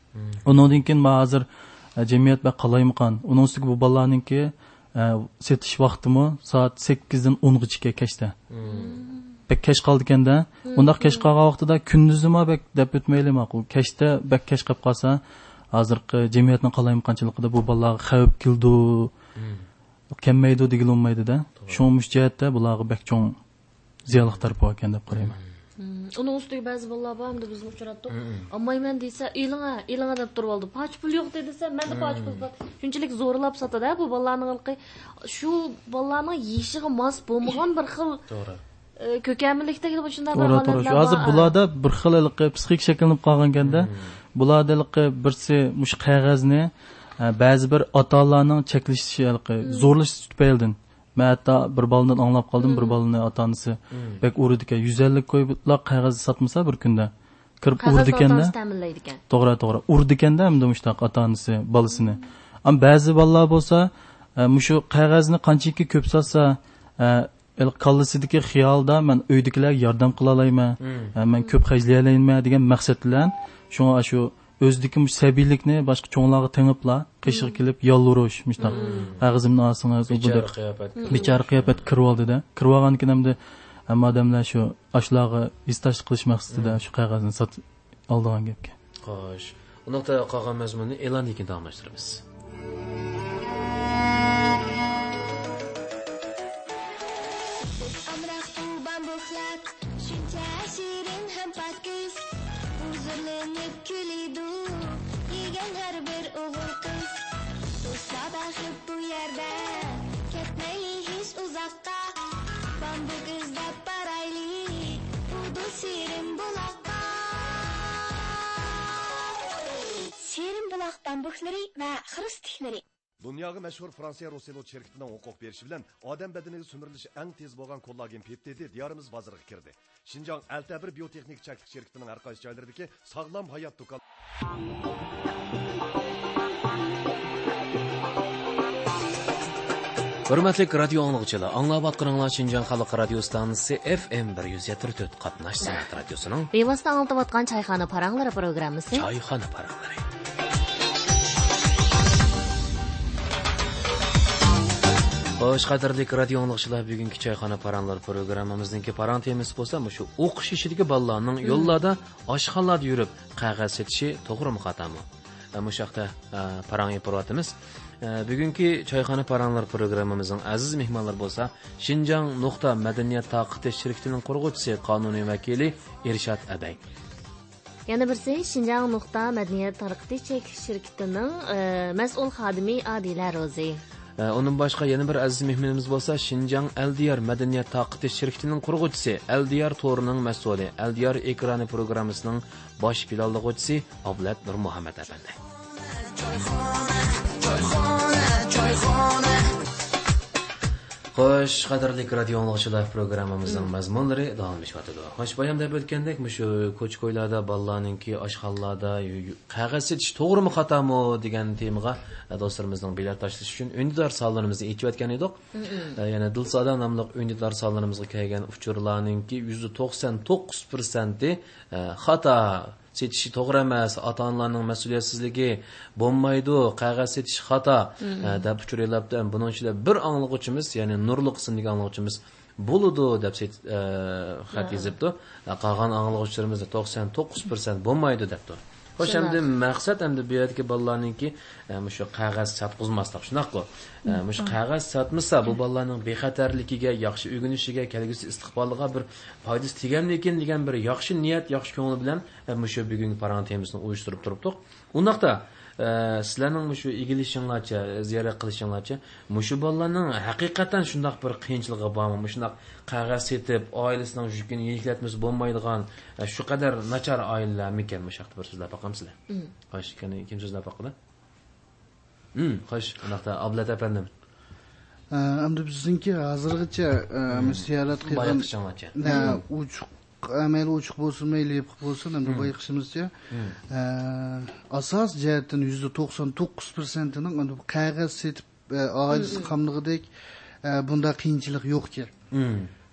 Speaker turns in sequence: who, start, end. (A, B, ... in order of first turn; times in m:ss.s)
0:00.2-0:00.4 A
0:00.4-0:01.4 B
0:02.0-0:08.3 B
0:08.5-0:09.0 A
0:08.6-0:09.4 C
0:09.5-0:15.2 B
0:10.7-0:11.3 C
0:15.7-0:19.1 B
0:19.4-0:19.6 A
0:20.2-0:23.4 B
0:21.6-0:21.8 A
0:24.1-0:25.4 B
0:24.1-0:24.5 A
0:25.1-0:25.5 A
0:25.8-0:38.2 C
0:28.1-0:28.5 A
0:31.9-0:32.4 A
0:38.3-0:38.6 A
0:39.0-0:41.5 C
0:40.3-0:46.7 B
0:43.6-0:44.1 A
0:47.2-0:58.5 B
0:49.6-0:49.9 C
0:52.6-0:53.0 C
0:53.9-0:54.2 A
0:57.8-0:59.2 C
0:59.3-1:20.5 B
1:10.8-1:11.1 A
1:17.3-1:17.6 C
1:18.6-1:19.2 A
1:18.6-1:19.1 C
1:20.1-1:21.9 A
1:21.0-1:21.3 C
1:21.1-1:23.4 B
1:23.9-1:28.7 B
1:26.5-1:26.8 A
1:29.0-1:32.2 A
1:37.6-1:42.3 D
1:42.8-1:47.2 D
1:47.8-1:52.1 D
1:52.8-1:57.4 D
2:00.1-2:02.8 D
2:03.2-2:14.0 E
2:20.3-2:26.5 A
2:26.5-2:29.1 C
2:28.9-2:30.0 A
2:35.4-2:45.0 A
2:41.4-2:41.8 C
2:45.6-2:56.8 A
2:57.9-3:03.8 C
3:04.2-3:15.4 A
3:17.5-3:17.8 A
3:18.3-3:19.2 A
3:21.1-3:35.4 A
3:35.6-3:36.0 C
3:36.0-4:29.2 A
3:48.0-3:48.4 C
3:54.5-3:54.9 C
3:59.0-3:59.4 C
4:29.7-4:30.9 A
4:32.4-4:34.1 A
4:35.1-4:43.1 F
4:37.3-4:39.4 A
4:42.2-4:42.5 A
4:43.3-4:43.6 A
4:43.7-4:50.1 F
4:49.1-4:49.5 C
4:50.6-4:52.1 F
4:52.3-4:52.7 A